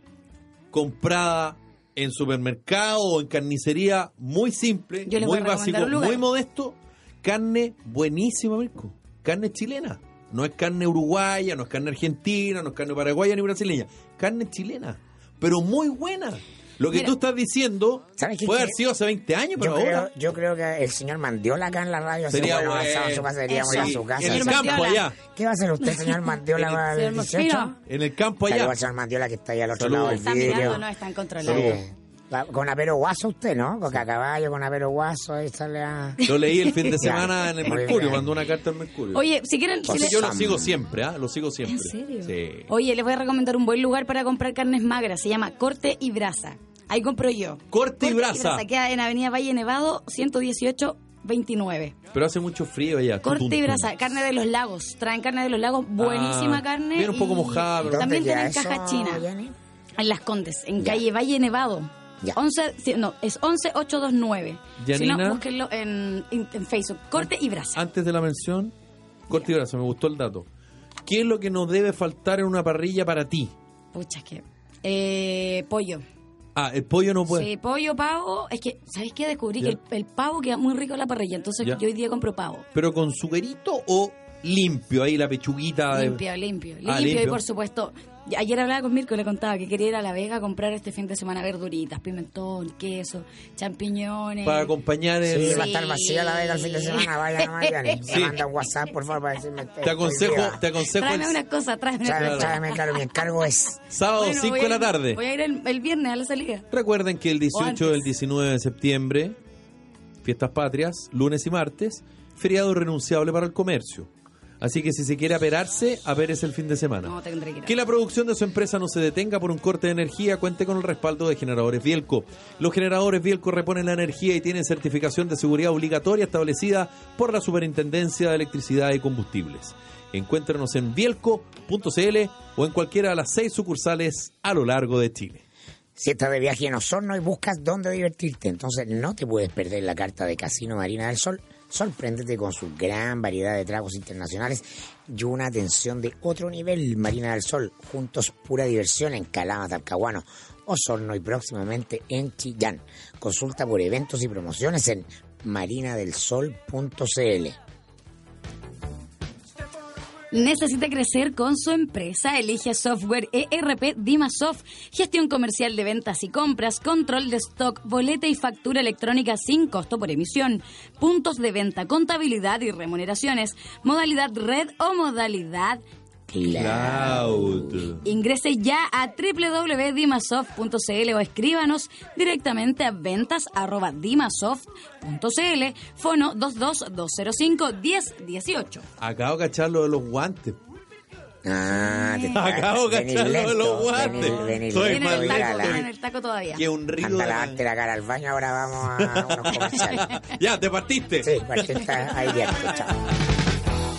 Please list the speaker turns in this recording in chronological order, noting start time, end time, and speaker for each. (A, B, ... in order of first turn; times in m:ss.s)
0:00.7-0:20.1 A
0:05.1-0:06.2 B
0:18.2-0:18.8 C
0:19.6-0:27.7 C
0:22.3-0:25.2 A
0:23.5-0:25.0 B
0:25.8-0:27.8 B
0:26.6-0:26.8 A
0:27.9-0:28.8 A
0:28.5-0:30.8 C
0:29.8-0:30.8 A
0:30.1-0:31.8 B
0:31.4-0:36.2 C
0:31.4-0:31.8 A
0:36.2-0:37.0 B
0:36.2-0:39.2 A
0:36.9-0:38.3 C
0:39.1-0:40.3 B
0:39.9-0:40.8 C
0:39.9-0:42.7 A
0:41.7-0:52.0 B
0:47.7-0:48.6 A
0:52.1-0:54.0 A
0:53.2-0:59.3 B
0:56.0-0:58.1 A
0:57.8-0:59.5 C
1:00.0-1:07.8 B
1:04.8-1:05.4 A
1:07.8-1:08.7 A
1:09.3-1:10.5 A
1:11.1-1:13.5 A
1:13.9-1:16.0 B
1:16.6-1:17.5 A
1:17.3-1:22.7 B
1:22.8-1:26.2 A
1:25.9-1:34.7 B
1:26.8-1:27.4 A
1:34.4-1:35.7 A
1:35.3-1:40.6 C
1:35.4-1:38.1 B
1:38.1-1:38.4 A
1:39.8-1:41.4 A
1:40.9-1:43.2 B
1:42.0-1:43.8 C
1:42.2-1:42.6 A
1:43.9-1:45.2 A
1:44.1-1:46.7 B
1:46.7-1:49.4 A
1:47.5-1:48.1 B
1:50.2-1:54.1 A
1:54.6-1:57.1 A
1:57.0-1:57.8 B
1:57.7-2:15.4 A
2:16.0-2:37.6 C
2:40.3-2:55.8 B
2:56.3-2:58.0 C
2:56.5-2:58.0 A
2:58.0-3:08.8 B
3:09.0-3:10.6 A
3:11.4-3:15.8 C
3:11.9-3:12.4 B
3:12.3-3:15.9 A
3:14.8-3:16.6 B
3:16.5-3:17.6 A
3:17.0-3:20.1 C
3:19.0-3:22.9 A
3:20.0-3:20.2 B
3:21.2-3:23.0 C